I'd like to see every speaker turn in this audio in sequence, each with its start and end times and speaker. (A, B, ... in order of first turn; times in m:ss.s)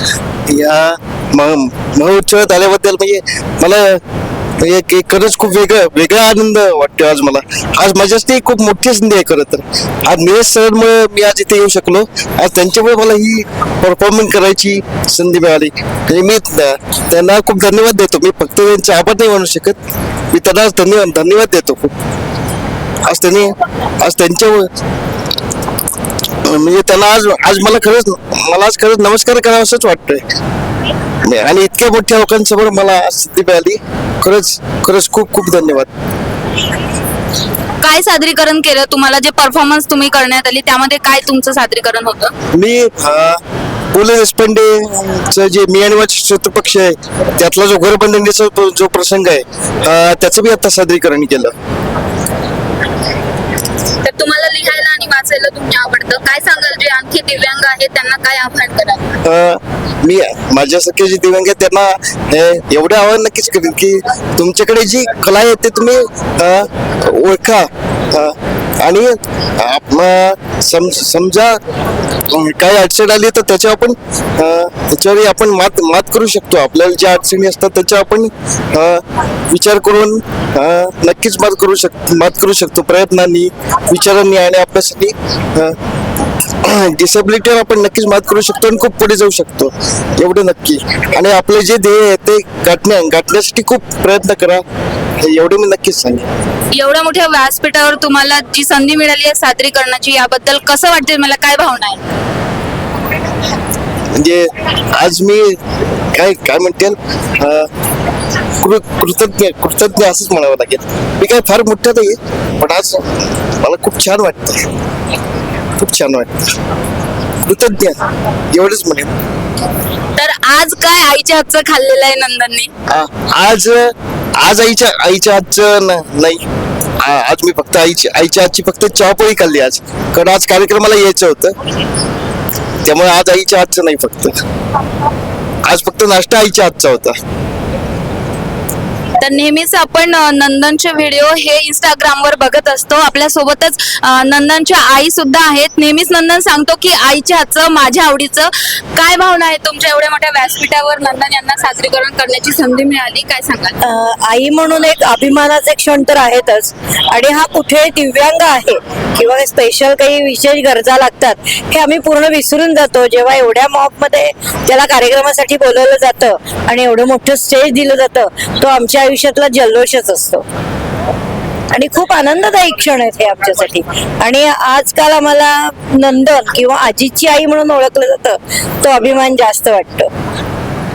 0:00.5-0:04.0 A
0:04.6-0:19.8 A
0:20.3-0:21.9 A
0:23.0-0:24.7 A
0:26.4-0:30.2 A
0:31.2-0:35.9 A
0:37.8-0:42.3 B
0:42.5-0:43.4 A
0:43.9-0:51.5 A
0:54.0-0:59.2 B
0:59.2-1:11.6 A
1:12.3-1:25.8 A
1:26.6-1:34.6 A
1:35.2-1:36.3 A
1:36.7-1:42.0 B
1:44.2-1:45.5 A
1:46.1-1:47.7 A
1:48.6-1:53.0 A
1:53.6-1:54.7 A
1:55.8-1:56.4 A
1:57.4-1:58.0 A
1:58.5-1:59.1 A
2:00.2-2:02.7 B
2:02.9-2:06.4 A
2:07.0-2:11.5 A
2:12.8-2:14.4 A
2:15.6-2:17.2 A
2:19.2-2:33.7 B
2:33.8-2:50.4 C
2:51.7-3:00.1 C